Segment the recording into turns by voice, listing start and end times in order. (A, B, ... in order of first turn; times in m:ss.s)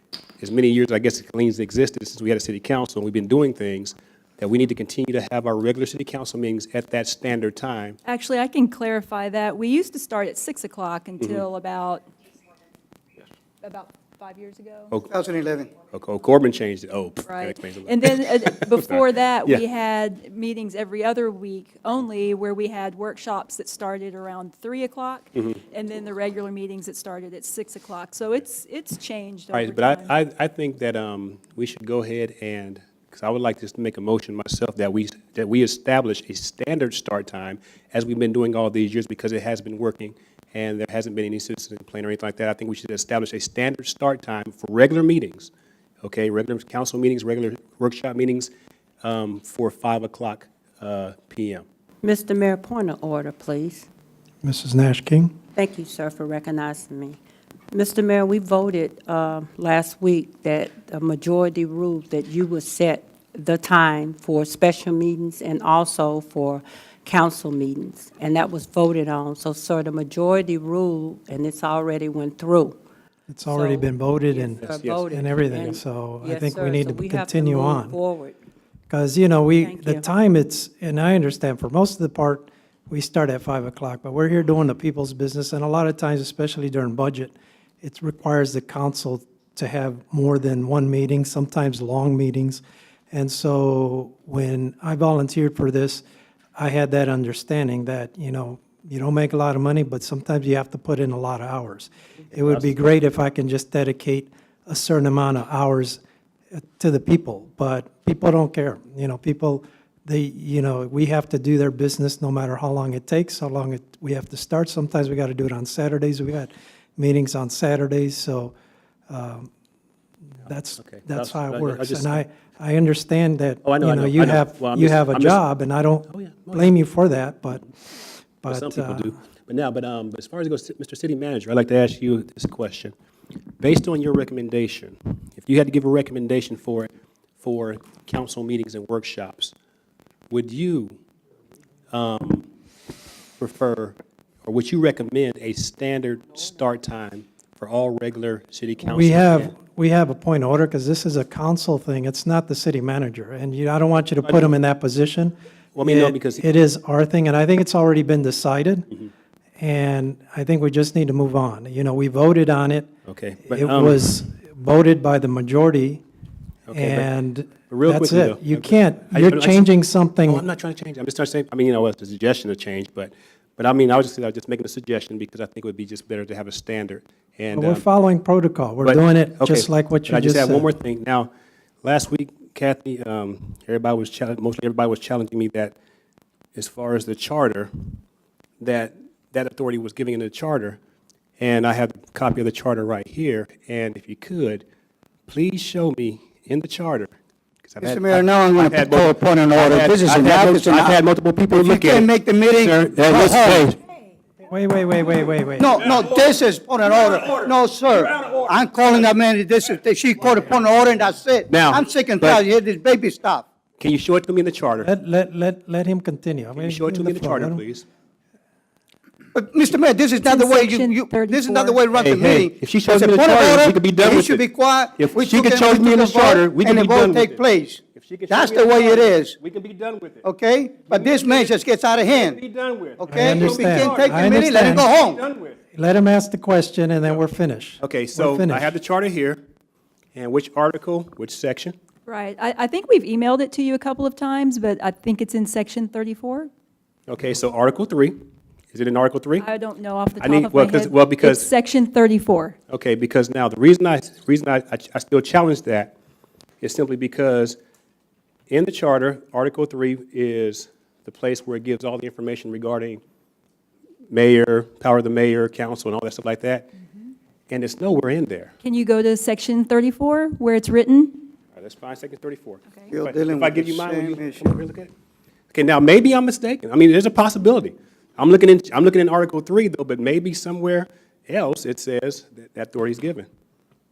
0:00.4-0:08.0 A
0:08.0-0:12.0 B
0:13.6-0:14.9 B
0:15.1-0:15.7 C
0:15.9-0:19.6 A
0:17.2-0:30.2 B
0:29.5-0:45.5 A
0:46.0-0:48.5 A
0:49.0-0:51.6 A
0:52.0-0:53.9 D
0:54.4-0:55.3 E
0:55.5-0:57.2 D
0:57.7-1:12.8 D
1:13.3-1:18.0 E
1:13.5-1:18.4 D
1:14.6-1:15.0 A
1:18.9-1:36.0 E
1:19.6-1:20.0 D
1:36.6-1:46.0 E
1:42.4-1:42.7 A
1:46.5-1:58.5 E
1:59.1-1:59.5 E
2:00.4-2:07.7 E
2:00.8-2:02.2 A
2:03.6-2:05.4 A
2:06.1-2:06.7 A
2:08.4-2:09.1 E
2:08.5-2:12.9 A
2:13.6-2:16.9 A
2:17.4-2:19.5 A
2:20.3-2:21.0 A
2:21.9-2:22.5 A
2:23.4-2:29.5 A
2:28.8-2:38.9 E
2:34.2-2:34.5 A
2:35.7-2:36.5 A
2:39.6-2:42.9 E
2:43.0-2:44.1 A
2:43.5-2:46.0 E
2:46.7-2:47.1 A
2:46.7-2:50.4 E
2:47.7-2:49.7 A
2:50.2-2:57.8 A
2:57.5-3:00.7 E
2:58.8-3:01.3 A
3:01.8-3:05.7 A
3:06.5-3:08.0 A
3:08.6-3:10.8 A
3:11.4-3:14.6 A
3:15.3-3:23.8 A
3:17.8-3:21.0 C
3:21.5-3:23.7 C
3:24.5-3:25.8 E
3:25.6-3:33.4 C
3:31.5-3:32.4 A
3:33.8-3:34.9 A
3:34.8-3:37.6 E
3:36.5-3:37.8 A
3:39.3-3:49.3 C
3:40.2-3:41.8 B
3:41.9-3:44.4 A
3:45.0-3:50.2 A
3:50.2-3:52.4 C
3:50.8-3:55.6 A
3:53.0-3:55.2 C
3:53.1-3:54.9 E
3:55.7-3:58.7 E
3:57.8-3:59.4 A
4:00.1-4:01.7 A
4:02.0-4:06.5 B
4:07.1-4:08.2 A
4:08.7-4:09.4 A
4:09.4-4:12.6 B
4:10.2-4:11.5 A
4:12.7-4:15.9 A
4:16.6-4:17.6 A
4:18.5-4:23.0 A
4:24.1-4:26.7 A
4:27.5-4:28.5 A
4:28.6-4:31.3 B
4:31.5-4:34.9 A
4:32.9-4:34.5 C
4:35.5-4:43.3 A